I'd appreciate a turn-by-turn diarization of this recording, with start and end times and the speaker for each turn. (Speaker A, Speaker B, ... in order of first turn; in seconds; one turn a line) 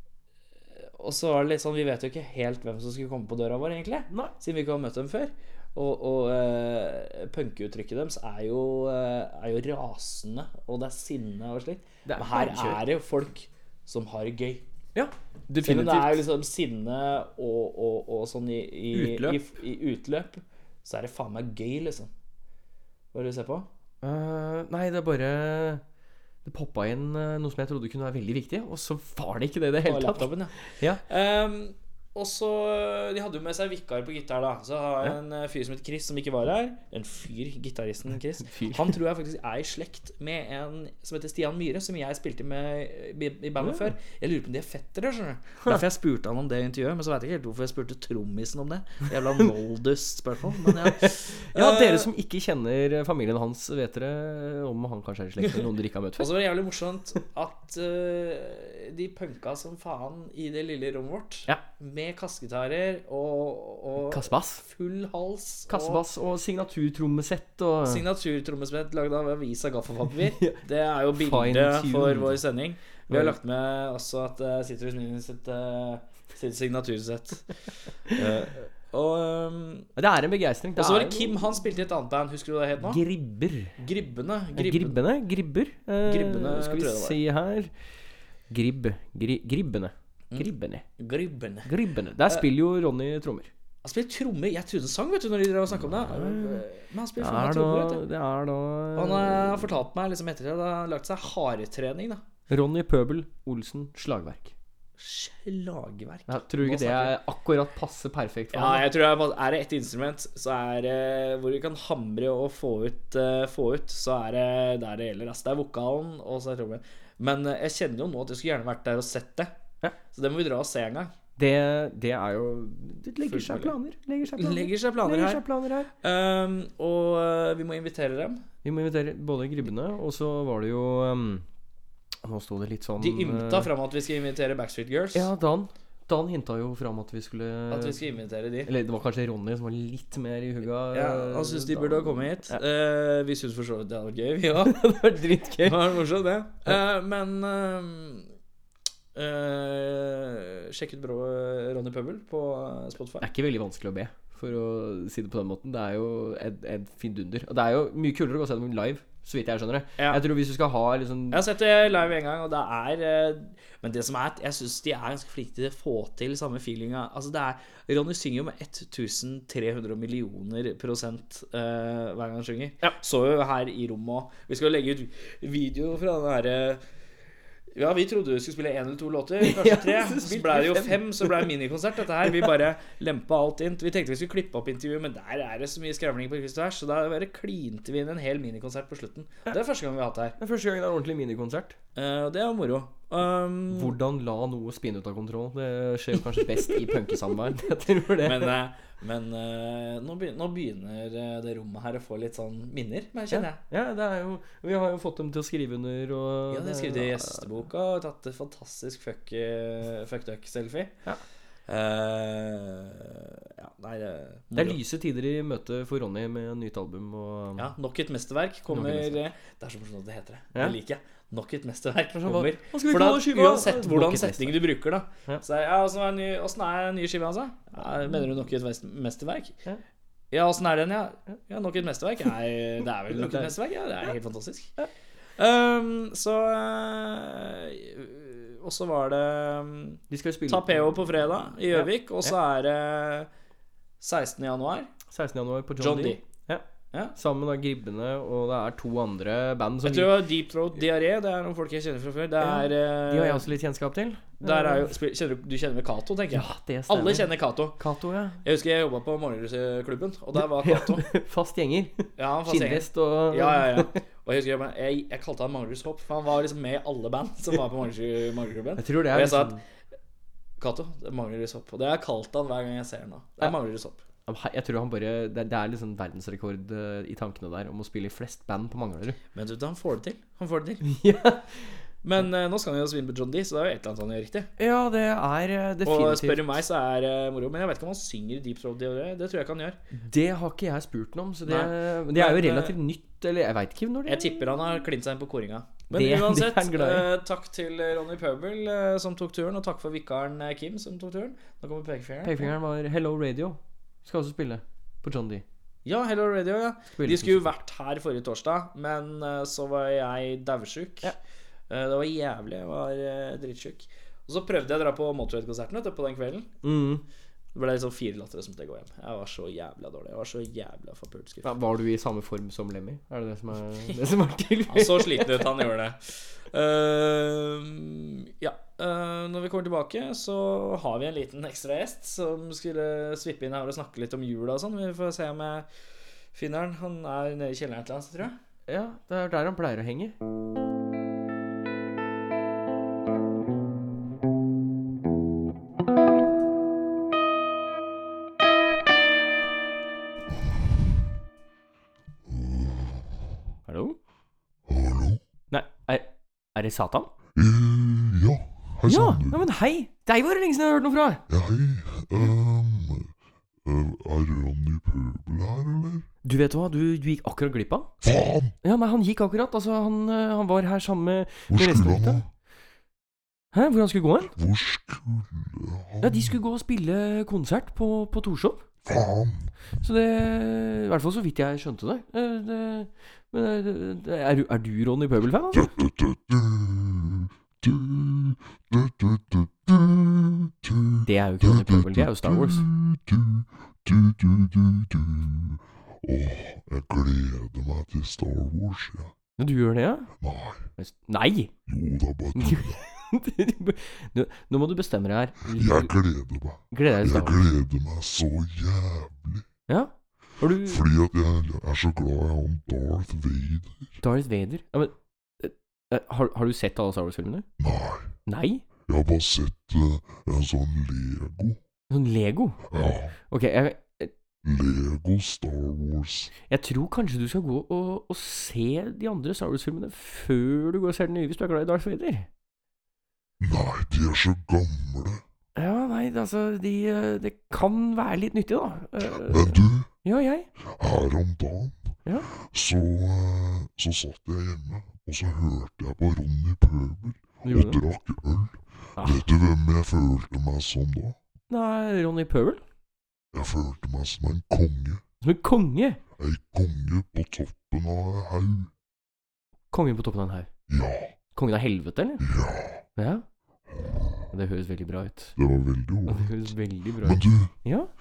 Speaker A: 1.0-14.6
Speaker B: 12.1-12.8
Speaker B: 14.9-16.2
Speaker A: 15.6-22.1
Speaker B: 18.9-19.4
Speaker A: 23.1-23.7
Speaker B: 24.0-25.8
Speaker B: 26.4-31.0
Speaker A: 29.9-30.6
Speaker A: 31.1-52.1
Speaker B: 38.4-39.0
Speaker B: 43.6-43.9
Speaker B: 50.6-56.4
Speaker A: 56.2-66.0
Speaker B: 64.1-64.7
Speaker B: 65.7-68.0
Speaker A: 67.9-77.5
Speaker B: 70.4-72.4
Speaker B: 73.1-73.4
Speaker A: 78.1-79.9
Speaker B: 80.0-81.4
Speaker A: 80.8-83.0
Speaker B: 82.8-83.8
Speaker A: 83.8-85.0
Speaker B: 84.5-87.7
Speaker A: 86.1-87.2
Speaker B: 88.5-90.9
Speaker A: 90.3-91.7
Speaker B: 91.7-93.5
Speaker A: 93.8-98.0
Speaker B: 96.0-96.6
Speaker B: 97.2-99.7
Speaker A: 99.0-102.2
Speaker B: 102.5-104.5
Speaker A: 105.0-107.2
Speaker B: 106.3-108.9
Speaker A: 108.5-119.5
Speaker A: 120.1-121.1
Speaker B: 121.4-125.9
Speaker A: 123.3-123.8
Speaker A: 124.4-125.4
Speaker A: 126.0-128.4
Speaker B: 128.6-131.4
Speaker B: 132.2-133.7
Speaker A: 133.0-135.3
Speaker B: 135.2-138.0
Speaker A: 137.7-138.7
Speaker B: 138.7-142.6
Speaker A: 140.9-144.8
Speaker B: 144.6-146.0
Speaker A: 145.6-148.3
Speaker A: 149.2-153.3
Speaker B: 153.2-161.4
Speaker A: 161.3-176.8
Speaker A: 177.7-190.4
Speaker B: 179.4-181.5
Speaker B: 190.4-191.8
Speaker A: 192.0-193.9
Speaker B: 193.7-198.6
Speaker A: 198.2-203.6
Speaker B: 203.3-207.4
Speaker A: 206.5-210.9
Speaker A: 211.7-214.8
Speaker B: 214.5-217.7
Speaker A: 217.6-229.6
Speaker B: 218.7-219.2
Speaker B: 222.2-224.7
Speaker A: 230.3-234.7
Speaker B: 233.1-233.6
Speaker A: 235.4-243.3
Speaker B: 240.1-241.1
Speaker B: 241.7-242.3
Speaker A: 244.0-244.9
Speaker B: 245.1-246.6
Speaker A: 245.8-246.2
Speaker B: 247.2-250.3
Speaker A: 249.8-253.4
Speaker B: 252.4-254.9
Speaker A: 254.4-257.8
Speaker B: 256.3-258.4
Speaker A: 258.4-261.1
Speaker B: 260.6-264.0
Speaker A: 262.2-269.6
Speaker B: 268.8-269.6
Speaker A: 270.6-274.0
Speaker B: 274.3-279.2
Speaker A: 279.4-280.8
Speaker B: 280.9-281.5
Speaker A: 282.0-284.5
Speaker B: 284.6-286.5
Speaker A: 285.9-289.8
Speaker B: 290.1-294.8
Speaker A: 291.5-292.7
Speaker A: 294.1-302.5
Speaker B: 295.9-297.1
Speaker B: 302.2-305.4
Speaker A: 305.9-311.1
Speaker B: 307.0-307.5
Speaker A: 311.7-316.5
Speaker B: 316.6-317.0
Speaker A: 317.6-321.5
Speaker B: 321.4-325.6
Speaker A: 324.7-326.0
Speaker A: 326.5-335.7
Speaker A: 336.3-338.3
Speaker B: 338.7-340.1
Speaker C: 352.3-353.2
Speaker B: 353.7-354.0
Speaker C: 354.7-355.2
Speaker B: 355.5-357.1
Speaker C: 357.4-359.4
Speaker B: 358.9-361.2
Speaker C: 361.3-363.1
Speaker C: 363.6-366.1
Speaker B: 366.2-367.9
Speaker C: 368.0-368.5
Speaker B: 368.6-372.2
Speaker C: 371.5-372.3
Speaker B: 373.5-374.3
Speaker C: 374.3-376.4
Speaker B: 376.0-378.6
Speaker C: 378.8-379.5
Speaker B: 379.8-385.7
Speaker C: 385.5-399.1
Speaker B: 391.1-392.6
Speaker B: 399.4-400.1
Speaker C: 400.2-400.7
Speaker B: 400.8-401.5
Speaker C: 401.7-402.9
Speaker B: 402.4-405.9
Speaker C: 405.5-409.5
Speaker B: 406.7-407.4
Speaker B: 409.7-410.8
Speaker C: 410.6-414.0
Speaker B: 414.0-417.5
Speaker C: 417.6-418.1
Speaker B: 418.3-418.7
Speaker C: 418.9-421.6
Speaker B: 421.9-422.6
Speaker C: 422.7-423.1
Speaker B: 423.3-424.1
Speaker C: 424.4-426.3
Speaker B: 426.5-432.3
Speaker C: 433.4-435.2
Speaker B: 435.6-440.5
Speaker C: 439.2-439.9
Speaker C: 440.6-451.2
Speaker B: 447.4-447.8
Speaker B: 449.0-449.2
Speaker B: 451.5-452.6
Speaker C: 453.3-455.0
Speaker B: 455.2-456.0
Speaker C: 456.2-458.7
Speaker B: 459.7-460.5
Speaker C: 460.7-461.1
Speaker B: 461.3-462.2
Speaker C: 462.2-462.8
Speaker B: 463.0-463.3
Speaker C: 463.8-464.3
Speaker B: 464.3-465.4
Speaker C: 465.4-467.5
Speaker B: 466.1-467.9